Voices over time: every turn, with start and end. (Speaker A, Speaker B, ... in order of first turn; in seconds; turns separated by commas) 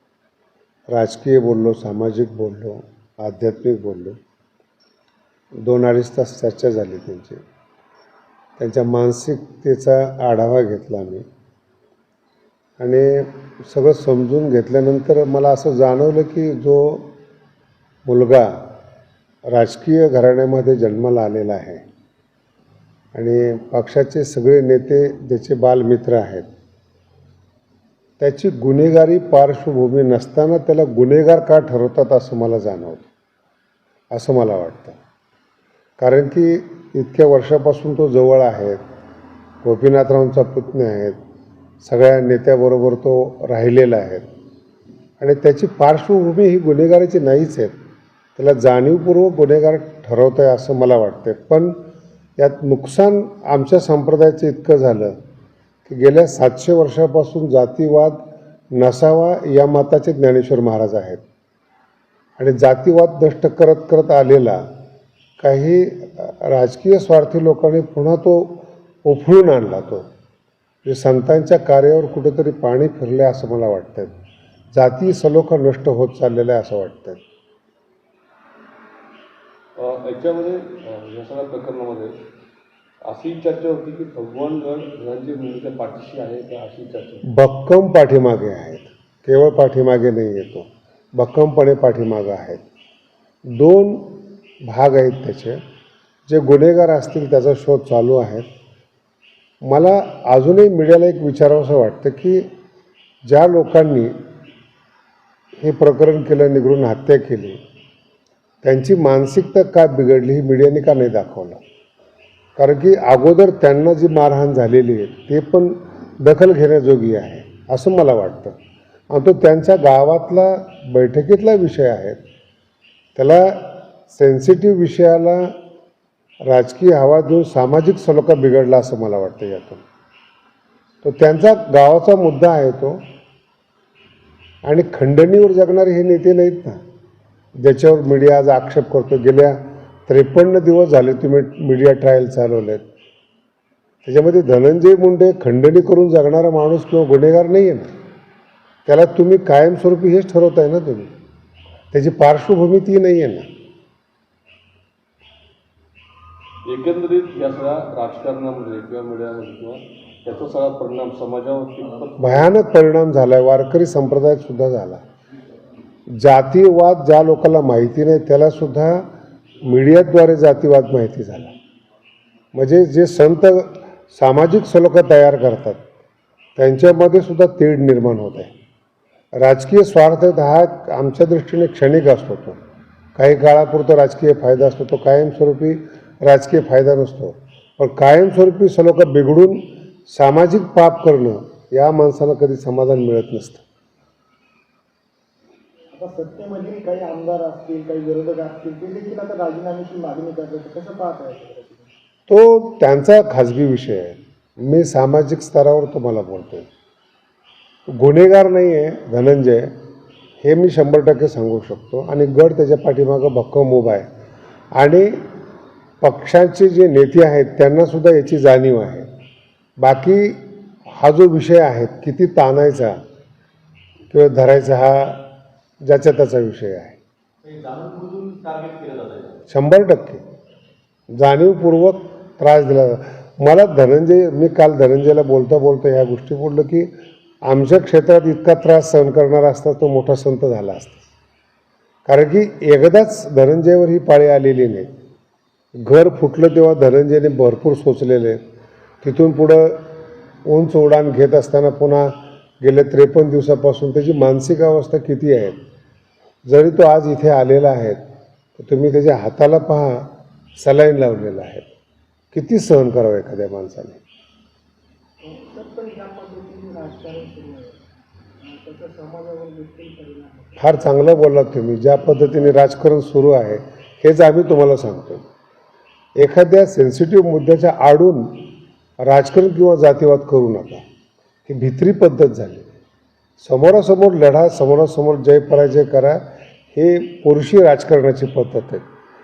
Speaker A: 0.9-4.2, Speaker A: 5.6-7.4, Speaker A: 8.6-11.2, Speaker A: 12.8-17.1, Speaker A: 18.1-18.7, Speaker A: 19.5-21.8, Speaker A: 23.1-26.5, Speaker A: 28.2-33.1, Speaker A: 34.1-35.0, Speaker A: 36.0-38.8, Speaker A: 39.6-41.2, Speaker A: 41.8-44.3, Speaker A: 45.2-47.8, Speaker A: 48.4-51.8, Speaker A: 52.4-55.2, Speaker A: 55.9-61.2, Speaker A: 62.4-64.7, Speaker A: 65.4-70.1, Speaker A: 70.8-74.1, Speaker A: 74.7-77.2, Speaker B: 79.8-82.1, Speaker B: 83.0-87.3, Speaker A: 87.3-92.6, Speaker A: 93.5-95.6, Speaker A: 96.3-98.5, Speaker A: 99.6-102.5, Speaker A: 103.2-104.1, Speaker A: 105.6-107.6, Speaker A: 108.6-111.6, Speaker A: 112.6-118.6, Speaker A: 119.1-122.2, Speaker A: 123.2-125.5, Speaker A: 126.4-129.8, Speaker A: 131.0-133.0, Speaker A: 134.6-136.8, Speaker A: 137.6-142.9, Speaker A: 144.1-147.9, Speaker A: 148.9-151.1, Speaker A: 151.9-153.5, Speaker B: 156.6-162.6, Speaker A: 162.2-165.0, Speaker A: 166.1-169.1, Speaker A: 169.6-171.5, Speaker A: 172.5-175.8, Speaker A: 176.6-178.5, Speaker A: 179.4-182.6, Speaker A: 183.2-193.6, Speaker C: 195.9-201.9, Speaker A: 202.3-206.7, Speaker A: 207.9-209.7, Speaker A: 210.4-214.1, Speaker A: 214.8-215.2, Speaker A: 216.0-219.1, Speaker A: 219.8-223.0, Speaker A: 224.1-225.3, Speaker A: 225.8-227.0, Speaker B: 227.5-229.2, Speaker A: 229.5-230.2, Speaker A: 231.1-236.9, Speaker A: 237.5-241.1, Speaker A: 242.1-244.9, Speaker A: 245.8-248.4, Speaker A: 249.0-249.9, Speaker A: 250.4-255.6, Speaker A: 256.4-258.0, Speaker A: 258.6-261.6, Speaker A: 262.3-264.0, Speaker C: 265.2-267.8, Speaker C: 268.4-270.6, Speaker A: 270.6-275.2, Speaker A: 276.2-278.5, Speaker A: 279.0-280.8, Speaker A: 281.5-282.7, Speaker A: 283.4-286.2, Speaker A: 286.7-288.9